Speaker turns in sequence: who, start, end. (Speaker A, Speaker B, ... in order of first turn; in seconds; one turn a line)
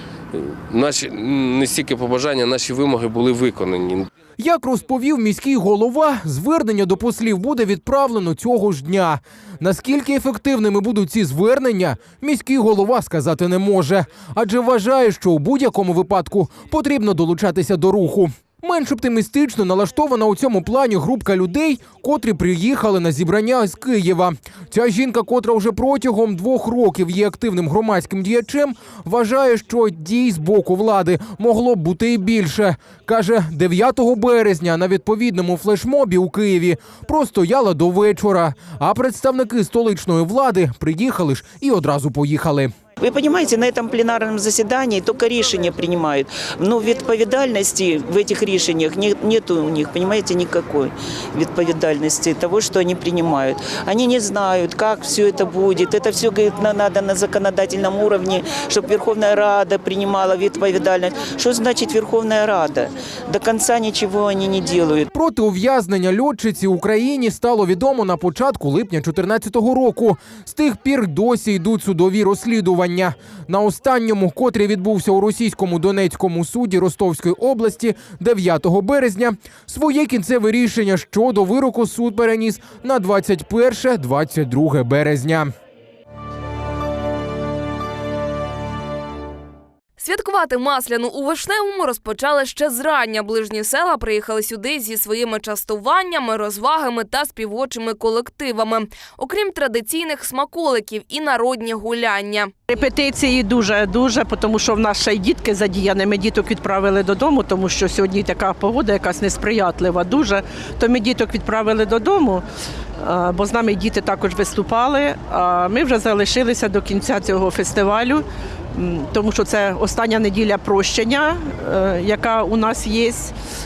Speaker A: 0.4-4.1
Speaker B: 4.4-42.7
Speaker C: 43.0-65.1
Speaker B: 65.1-85.5
Speaker D: 90.0-102.5
Speaker E: 102.7-112.4
Speaker E: 113.0-123.3